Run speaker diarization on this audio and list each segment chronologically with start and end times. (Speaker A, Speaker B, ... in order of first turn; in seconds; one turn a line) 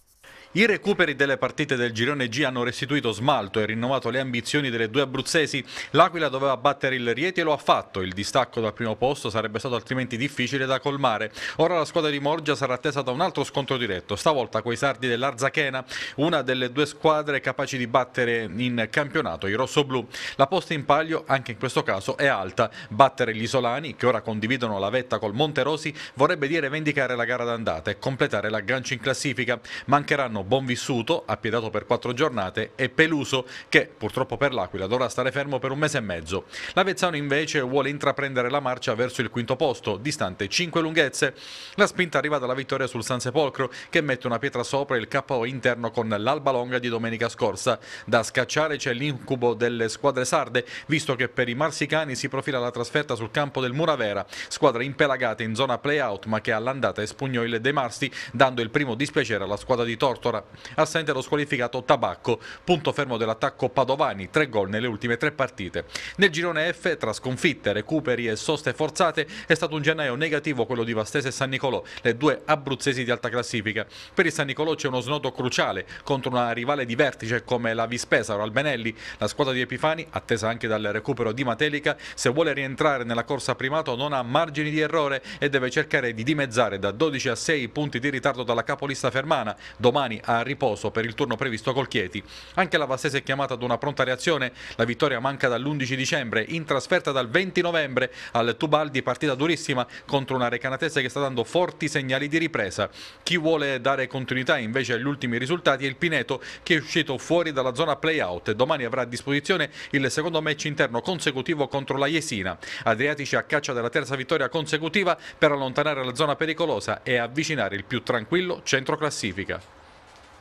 Speaker A: 0.5-119.6